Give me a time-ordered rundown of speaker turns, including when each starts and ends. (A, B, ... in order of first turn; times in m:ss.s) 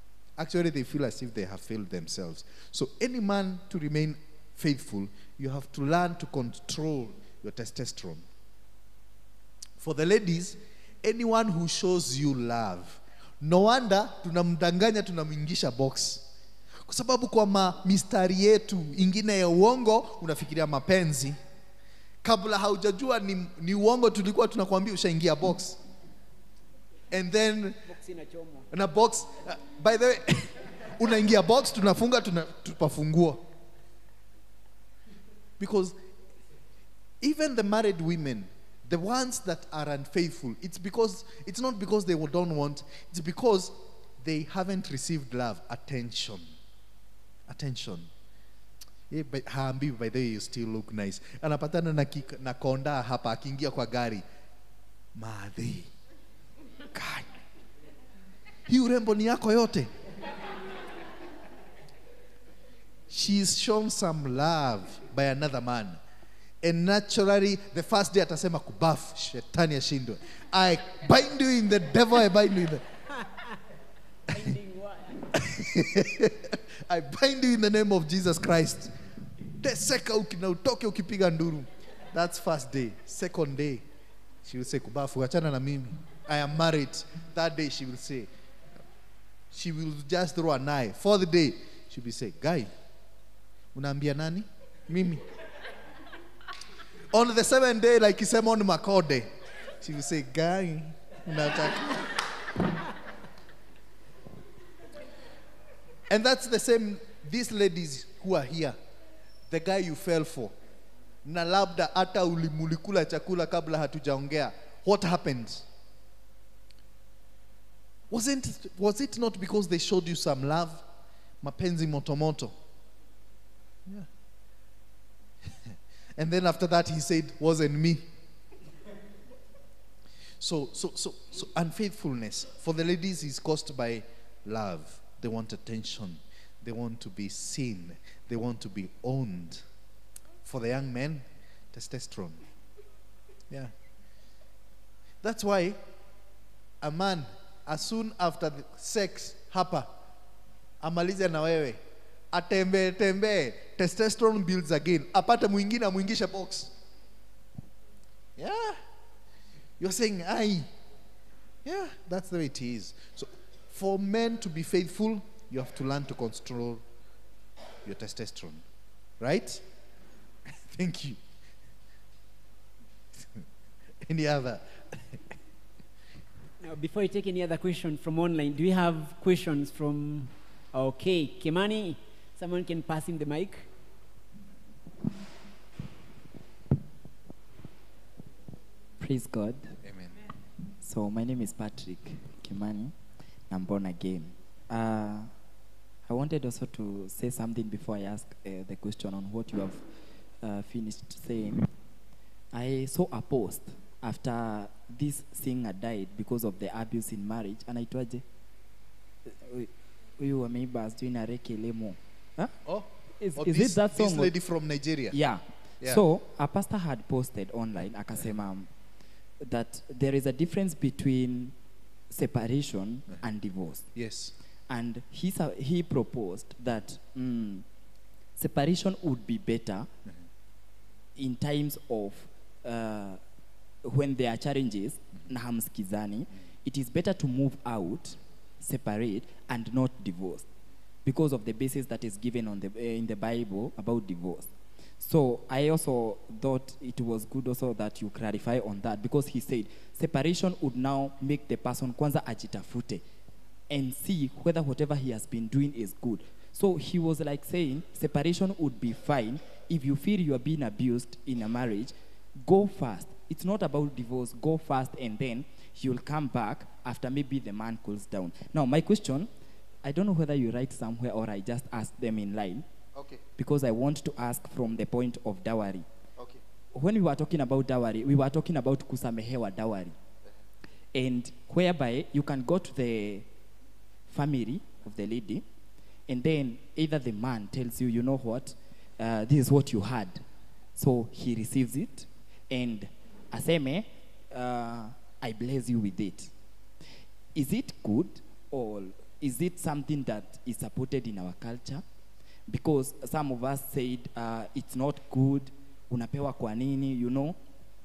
0:00.4-0:08.3 A
0:09.8-0:16.3 A
0:16.9-0:21.4 A
0:22.2-0:25.8 A
0:27.1-0:27.9 A
0:27.8-0:28.7 B
0:28.7-0:33.4 A
0:35.6-0:36.0 A
0:37.2-0:46.5 A
0:47.5-0:48.1 A
0:49.1-0:54.2 A
0:55.1-0:55.9 A
0:56.9-0:57.3 A
0:58.6-0:59.9 A
1:03.1-1:06.0 A
1:06.6-1:12.8 A
1:14.3-1:15.4 B
1:15.3-1:19.0 A
1:19.6-1:23.8 A
1:24.4-1:28.3 A
1:29.5-1:32.7 A
1:33.7-1:35.3 A
1:37.1-1:42.3 A
1:46.1-1:48.8 A
1:49.5-1:50.5 A
1:51.2-1:55.6 A
1:58.1-2:00.8 A
2:01.4-2:02.6 A
2:05.7-2:08.1 A
2:10.4-2:19.6 A
2:20.4-2:22.4 A
2:25.2-2:25.8 A
2:26.8-2:29.9 A
2:30.8-2:36.7 A
2:38.4-2:38.8 A
2:39.8-2:40.7 A
2:41.6-2:46.8 A
2:47.8-2:48.6 A
2:49.2-2:49.6 A
2:50.5-2:51.2 A
2:54.0-2:55.3 A
2:56.6-3:03.6 B
3:09.0-3:09.7 C
3:09.8-3:10.2 A
3:10.8-3:13.0 C
3:13.5-3:15.3 C
3:16.1-3:19.8 C
3:20.4-3:21.7 C
3:22.5-3:28.2 C
3:29.2-3:32.6 C
3:32.6-3:35.2 A
3:33.2-3:34.3 C
3:35.1-3:38.7 C
3:39.4-3:41.6 C
3:42.1-3:43.9 C
3:43.9-3:44.3 A
3:44.7-3:47.6 C
3:48.4-3:49.9 C
3:51.2-3:53.2 C
3:53.8-4:00.4 C
4:01.0-4:13.0 C
4:13.7-4:29.3 C
4:29.8-4:32.6 C
4:33.0-4:33.2 A
4:33.4-4:35.9 C
4:36.7-4:40.0 C
4:40.9-4:43.3 C
4:44.1-4:45.4 C
4:46.1-4:50.2 C
4:50.8-4:56.3 C
4:57.3-5:01.8 C
5:02.5-5:07.4 C